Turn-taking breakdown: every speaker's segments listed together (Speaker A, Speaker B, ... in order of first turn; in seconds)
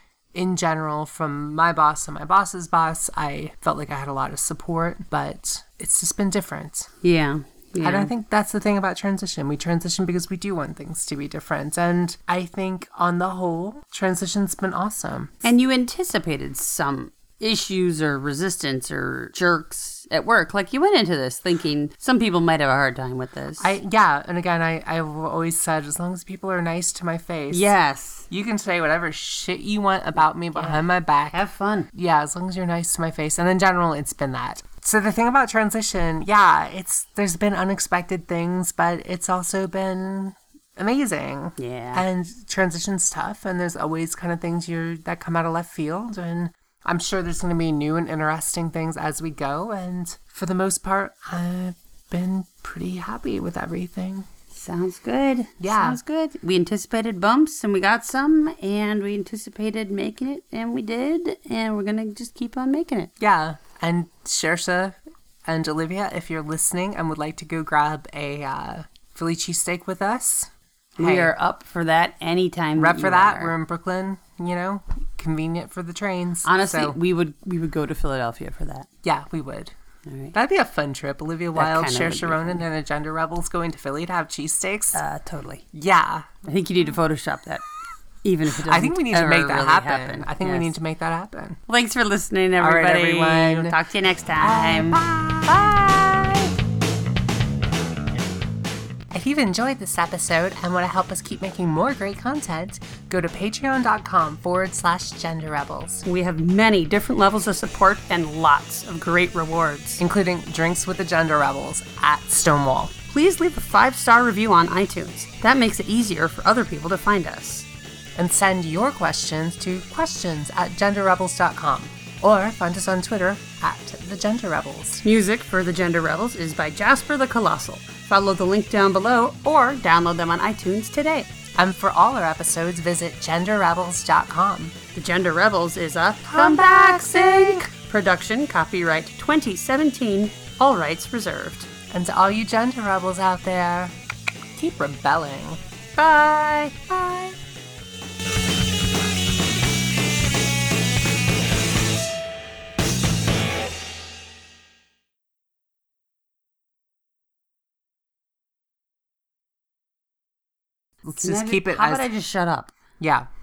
Speaker A: 0.3-6.9, 7.8-15.3, 23.6-27.7, 28.3-31.4, 31.9-54.3, 55.6-56.0, 63.2-71.3, 72.8-77.0, 79.0-79.7, 80.3-85.0, 85.7-86.3, 88.5-91.6, 92.6-93.8, 94.4-96.5, 99.1-106.0, 110.0-112.9, 118.2-125.0, 131.6-134.8, 136.2-137.7, 141.9-143.9, 144.6-145.6, 161.0-162.1, 163.0-163.3
Speaker B: 7.0-8.1, 15.4-23.8, 27.5-28.3, 30.5-31.9, 41.6-42.0, 54.5-63.1, 71.0-73.5, 76.4-78.9, 80.1-80.3, 81.5-82.6, 84.9-85.6, 86.4-87.6, 88.2-90.7, 91.7-95.0, 106.0-110.0, 113.1-117.7, 125.0-131.3, 134.9-141.7, 146.0-147.3, 161.2-162.7